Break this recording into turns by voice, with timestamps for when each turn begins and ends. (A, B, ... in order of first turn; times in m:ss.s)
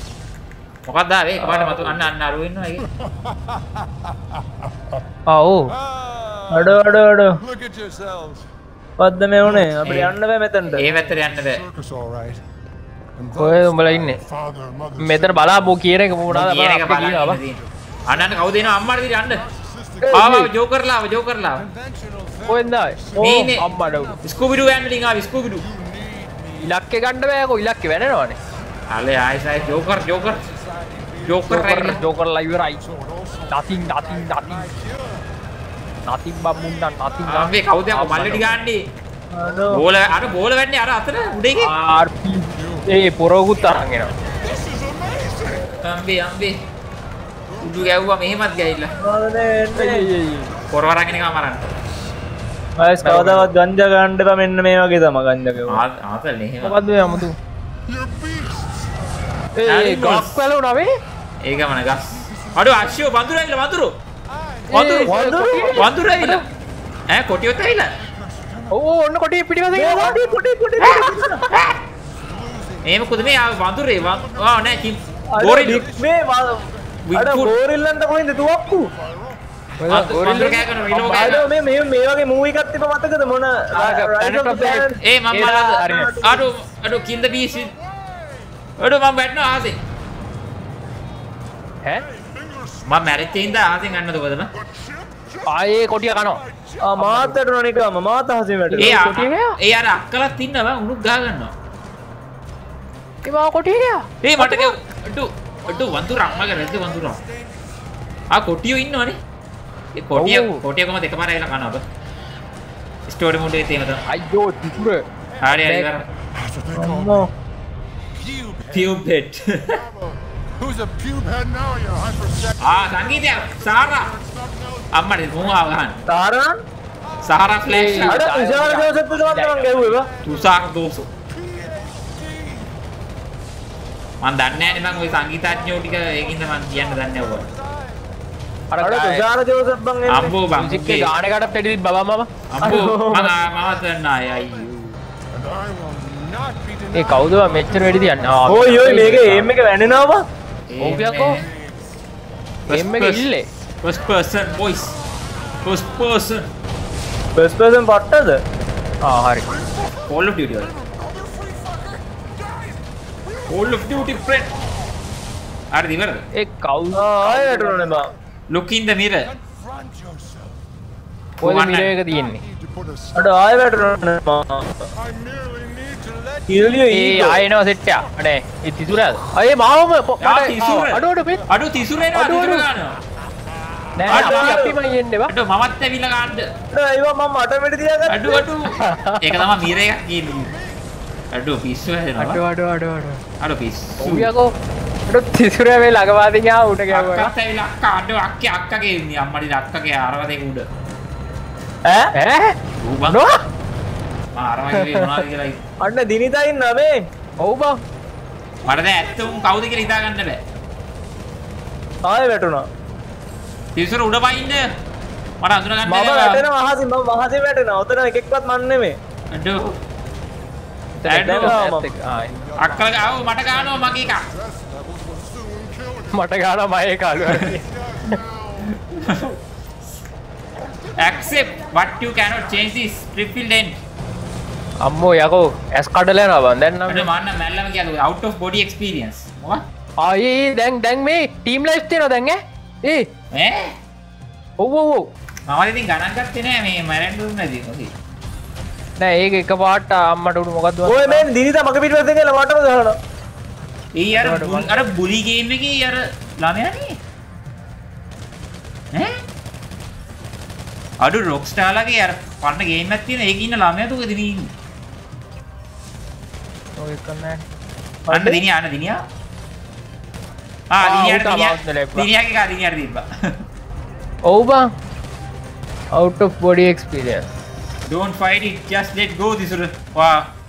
0:00.9-0:02.9 A
0:01.4-0:02.0 B
0:02.8-0:05.0 C
0:05.3-0:05.7 D
0:05.7-0:08.5 C
0:06.5-0:07.4 B
0:09.0-0:10.9 B
0:09.4-0:09.8 C
0:10.8-0:11.6 A
0:10.9-0:12.4 C
0:13.2-0:15.9 C
0:13.4-0:14.2 D
0:15.0-0:17.4 D
0:16.3-0:19.4 A
0:17.4-0:20.4 C
0:20.0-0:20.5 D
0:20.1-0:21.7 A
0:21.6-0:26.8 C
0:22.5-0:24.2 D
0:23.2-0:23.6 A
0:24.2-0:25.6 A
0:26.6-0:28.4 D
0:28.9-0:30.4 A
0:29.5-0:32.2 C
0:31.2-0:32.0 A
0:31.5-0:32.8 D
0:32.8-0:35.3 C
0:33.5-0:34.8 D
0:36.1-0:38.6 D
0:36.5-0:37.3 C
0:37.3-0:38.8 A
0:39.3-0:39.8 B
0:39.7-0:41.7 A
0:41.6-0:44.1 D
0:42.5-0:42.9 C
0:44.3-0:45.8 C
0:45.8-0:46.6 A
0:47.5-0:49.0 C
0:47.6-0:48.9 A
0:49.0-0:50.0 B
0:49.8-0:50.5 D
0:50.5-0:51.2 C
0:50.7-0:51.6 A
0:52.8-0:55.8 B
0:53.0-0:53.5 A
0:55.7-0:56.8 A
0:56.6-0:57.4 D
0:57.9-0:58.9 C
0:59.6-1:00.9 D
0:59.7-1:00.3 A
1:01.4-1:03.9 A
1:02.1-1:03.1 C
1:04.3-1:04.9 C
1:04.7-1:06.4 D
1:04.7-1:05.1 A
1:05.1-1:05.8 B
1:05.8-1:06.4 A
1:07.1-1:07.9 A
1:08.0-1:08.9 C
1:08.7-1:10.2 D
1:09.8-1:11.4 B
1:10.0-1:11.5 C
1:10.8-1:11.8 A
1:12.0-1:17.0 C
1:12.8-1:15.9 A
1:15.3-1:18.9 B
1:17.1-1:17.6 A
1:18.3-1:20.1 C
1:19.8-1:20.7 D
1:19.9-1:21.5 A
1:20.9-1:25.0 B
1:23.8-1:26.4 D
1:25.0-1:27.7 A
1:25.8-1:26.1 B
1:27.1-1:28.6 C
1:28.8-1:29.8 A
1:32.0-1:33.8 C
1:32.9-1:34.5 A
1:34.6-1:37.0 C
1:35.5-1:36.4 D
1:36.8-1:39.0 B
1:37.0-1:37.3 D
1:38.7-1:39.6 D
1:38.8-1:41.5 A
1:43.2-1:44.7 D
1:44.2-1:47.2 A
1:45.7-1:47.8 C
1:48.3-1:49.2 A
1:50.0-1:51.8 A
1:50.2-1:50.6 D
1:53.1-1:54.0 A
1:54.1-1:55.9 D
1:55.4-1:56.1 A
1:56.2-1:57.3 C
1:56.7-1:57.3 B
1:58.1-1:59.0 C
1:58.7-1:59.8 A
1:59.6-2:05.8 C
2:02.6-2:04.1 A
2:04.9-2:06.0 A
2:06.1-2:06.6 B
2:07.1-2:07.6 C
2:07.2-2:08.2 A
2:07.7-2:10.0 D
2:08.1-2:10.1 B
2:10.0-2:10.6 C
2:10.2-2:11.1 A
2:11.3-2:12.8 C
2:14.2-2:17.5 A
2:14.5-2:18.1 C
2:18.7-2:19.2 D
2:18.8-2:20.4 B
2:20.1-2:21.1 A
2:20.5-2:22.3 D
2:22.5-2:25.0 A
2:22.6-2:23.3 B
2:23.5-2:24.7 C
2:25.3-2:29.0 C
2:26.9-2:29.5 D
2:28.5-2:30.2 B
2:30.7-2:31.4 A
2:30.8-2:31.4 D
2:31.2-2:31.8 C
2:32.7-2:33.5 D
2:32.7-2:33.2 A
2:33.8-2:35.0 A
2:35.6-2:36.5 A
2:37.4-2:38.4 B
2:39.0-2:39.5 D
2:39.5-2:40.1 C
2:40.1-2:40.7 A
2:40.6-2:44.6 C
2:43.5-2:44.5 A
2:45.7-2:46.2 A
2:46.4-2:47.8 D
2:47.0-2:48.1 B
2:47.9-2:48.2 C
2:48.5-2:49.3 A
2:49.2-2:50.6 C
2:51.4-2:52.0 A
2:51.4-2:52.4 D
2:52.0-2:53.3 C
2:53.2-2:54.7 B
2:54.9-2:56.9 C
2:56.5-2:57.4 B
2:56.9-3:01.4 D
2:57.8-2:58.1 C
2:58.9-2:59.3 C
3:00.2-3:03.0 A
3:02.1-3:02.7 D
3:04.0-3:04.7 B
3:04.1-3:05.3 D
3:04.1-3:04.7 A
3:05.3-3:06.5 A
3:06.7-3:08.5 B
3:08.1-3:10.5 A
3:08.8-3:09.4 D
3:11.3-3:12.4 A
3:12.2-3:13.2 D
3:13.4-3:14.3 A
3:14.0-3:14.5 D
3:15.1-3:17.3 D
3:16.9-3:20.7 A
3:21.9-3:22.1 B
3:22.2-3:22.6 D
3:22.8-3:23.2 A
3:23.1-3:23.4 D
3:24.4-3:25.6 A
3:24.7-3:25.2 D
3:25.8-3:27.0 B
3:27.4-3:27.8 D
3:28.6-3:30.4 A
3:32.1-3:32.7 B
3:33.8-3:34.6 A
3:35.4-3:36.4 A
3:35.9-3:39.0 B
3:39.3-3:39.8 A
3:41.0-3:42.4 D
3:41.1-3:41.6 A
3:41.1-3:41.9 B
3:42.0-3:46.4 C
3:42.6-3:44.3 A
3:46.1-3:48.2 D
3:47.2-3:48.8 C
3:48.9-3:49.4 A
3:50.9-3:51.2 C
3:51.0-3:53.8 A
3:54.8-3:57.1 D
3:56.9-3:59.6 A
4:00.0-4:03.1 D
4:03.3-4:03.8 A
4:04.6-4:05.1 D
4:05.5-4:07.9 A
4:09.0-4:11.3 D
4:10.9-4:13.0 B
4:14.0-4:17.0 A
4:14.2-4:14.9 D
4:18.9-4:19.2 A
4:21.0-4:24.5 A
4:26.8-4:27.4 D
4:28.1-4:29.0 A
4:28.1-4:28.4 D
4:30.7-4:33.4 A
4:30.8-4:32.1 D
4:34.3-4:34.7 D
4:35.9-4:37.3 D
4:37.9-4:40.3 A